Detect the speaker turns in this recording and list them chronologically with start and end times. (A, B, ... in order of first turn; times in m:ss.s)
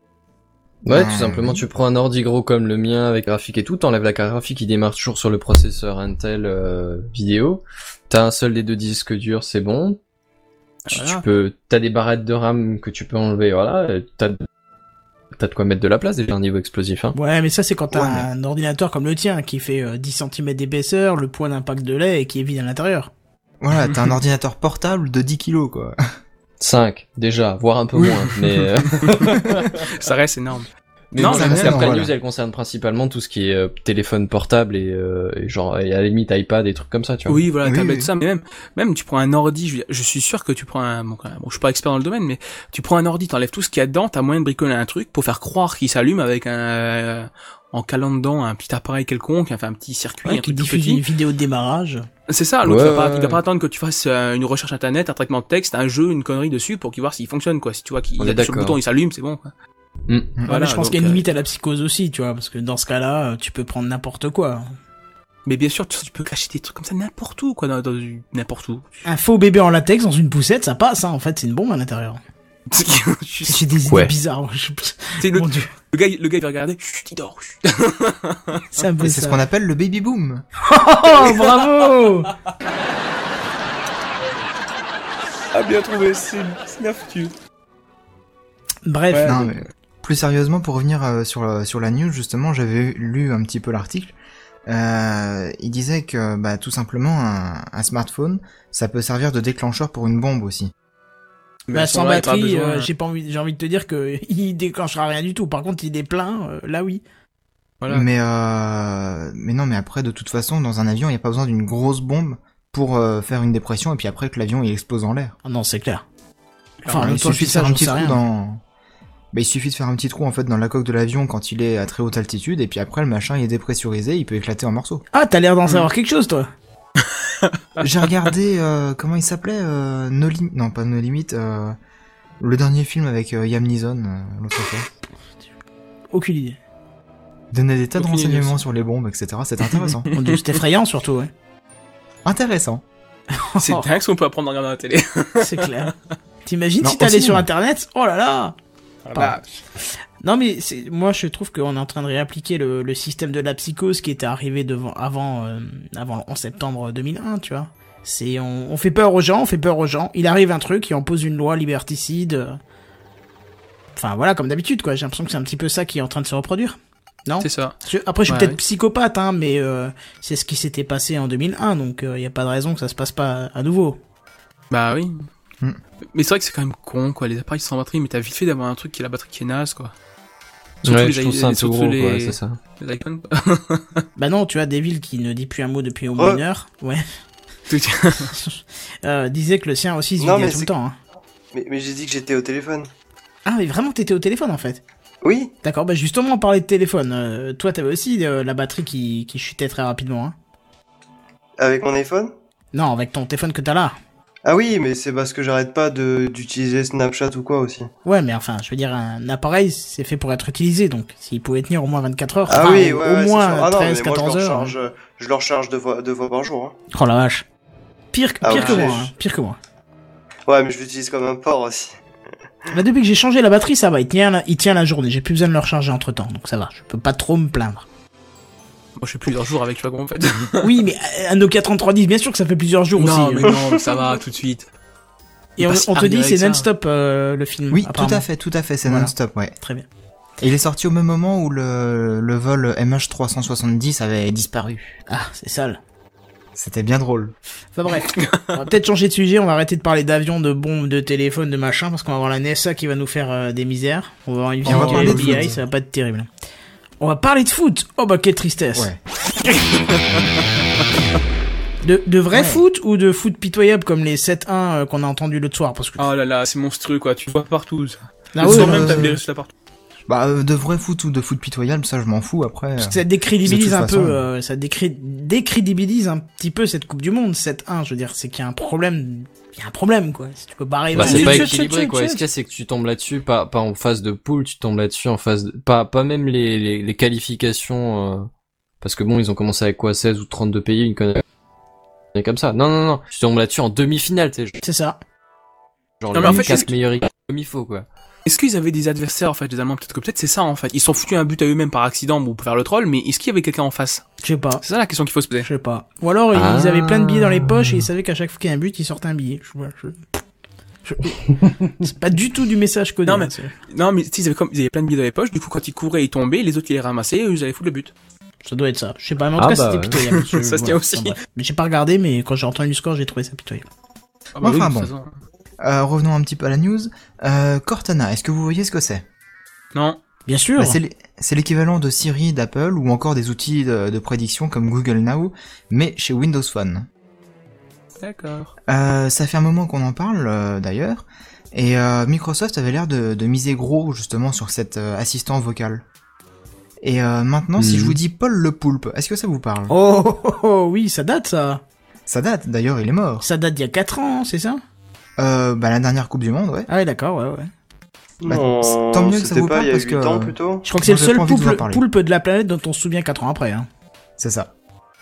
0:00.8-0:10.0 A
0:00.9-0:01.6 B
0:10.9-0:11.2 C
0:10.9-0:14.4 A
0:15.3-0:17.1 A
0:17.1-0:23.1 D
0:17.9-0:18.3 B
0:23.6-0:26.0 B
0:26.6-0:29.7 A
0:29.0-0:31.9 C
0:31.1-0:37.4 A
0:31.2-0:32.1 B
0:37.3-0:51.0 C
0:37.6-0:38.1 B
0:50.2-0:52.0 D
0:52.3-0:59.5 C
0:52.6-0:53.4 A
0:58.2-0:58.8 A
1:00.1-1:00.3 A
1:00.4-1:01.2 C
1:00.5-1:04.6 D
1:05.4-1:09.0 C
1:09.0-1:12.2 D
1:12.7-1:13.7 C
1:13.5-1:15.7 D
1:15.2-1:18.7 C
1:18.8-1:19.4 D
1:19.0-1:20.4 B
1:20.6-1:22.3 D
1:21.1-1:21.6 C
1:25.5-1:27.3 C
1:28.8-1:29.4 D
1:29.1-1:29.5 C
1:29.2-1:34.1 B
1:34.7-1:40.7 B
1:41.7-1:42.9 C
1:41.7-1:47.0 D
1:47.8-1:48.1 C
1:47.9-1:55.3 B
1:55.4-1:56.0 D
1:56.9-1:58.2 D
1:56.9-1:58.6 B
1:59.3-2:05.0 B
2:05.1-2:06.5 D
2:07.0-2:07.5 C
2:07.8-2:11.8 B
2:12.4-2:14.9 B
2:16.1-2:16.6 D
2:17.5-2:20.1 B
2:18.0-2:18.6 C
2:20.1-2:21.3 D
2:22.2-2:22.8 B
2:23.3-2:23.9 D
2:23.6-2:25.9 C
2:25.4-2:25.9 D
2:26.4-2:28.5 D
2:26.8-2:27.4 B
2:29.0-2:29.6 C
2:30.2-2:42.6 D
2:44.0-2:54.0 D
2:47.4-2:47.8 C
2:48.3-2:48.6 C
2:54.7-2:55.3 C
2:56.1-2:59.9 C
3:00.8-3:04.0 C
3:00.8-3:02.6 A
3:04.2-3:07.0 D
3:06.1-3:06.4 E
3:07.7-3:08.3 C
3:08.3-3:11.0 D
3:10.2-3:10.7 E
3:11.5-3:12.9 E
3:13.4-3:14.8 D
3:15.2-3:15.5 E
3:15.6-3:20.3 D
3:21.6-3:22.3 E
3:22.7-3:23.9 D
3:24.4-3:27.9 E
3:28.0-3:34.7 D
3:32.5-3:36.7 E
3:36.9-3:37.4 D
3:38.1-3:39.6 D
3:38.4-3:39.1 E
3:38.5-3:38.9 C
3:40.5-3:42.0 E
3:42.7-3:47.8 D
3:49.0-3:50.7 C
3:50.6-3:53.5 D
3:53.0-3:54.7 C
3:53.5-3:54.1 E
3:55.6-3:58.2 D
3:55.6-3:56.7 C
3:57.7-3:59.5 B
3:58.8-3:59.8 D
4:00.4-4:05.0 B
4:05.1-4:05.8 D
4:06.5-4:07.4 B
4:07.7-4:16.3 D
4:08.1-4:08.5 C
4:14.6-4:15.6 B
4:14.7-4:15.4 C
4:17.0-4:18.9 D
4:21.8-4:26.1 D
4:26.0-4:29.5 C
4:28.3-4:29.2 D
4:28.4-4:29.2 B
4:30.1-4:34.2 B
4:32.8-4:42.2 D
4:40.9-4:48.3 A
4:41.0-4:41.5 C
4:48.8-4:51.2 A
4:52.1-4:54.6 A
4:54.6-4:55.0 D
4:56.0-4:57.8 A
4:56.1-4:56.7 C
4:58.2-5:04.0 C
5:04.2-5:04.6 D
5:04.6-5:05.5 C
5:05.4-5:10.2 D
5:06.3-5:07.8 A
5:10.8-5:13.5 D
5:13.0-5:17.9 C
5:18.4-5:23.7 D
5:19.4-5:20.0 A
5:20.1-5:21.2 C
5:24.3-5:25.1 C
5:24.4-5:24.9 B
5:25.6-5:29.0 B
5:29.7-5:30.0 C
5:30.3-5:30.8 D
5:30.6-5:36.9 B
5:38.0-5:38.5 C
5:38.7-5:45.8 B
5:46.8-5:49.7 B
5:47.6-5:48.0 A
5:49.7-5:51.6 D
5:52.1-5:53.2 B
5:53.2-5:54.6 D
5:55.2-5:56.7 B
5:56.7-5:57.5 D
5:58.2-6:00.6 E
5:58.2-6:01.8 B
6:00.6-6:03.7 D
6:04.2-6:04.5 B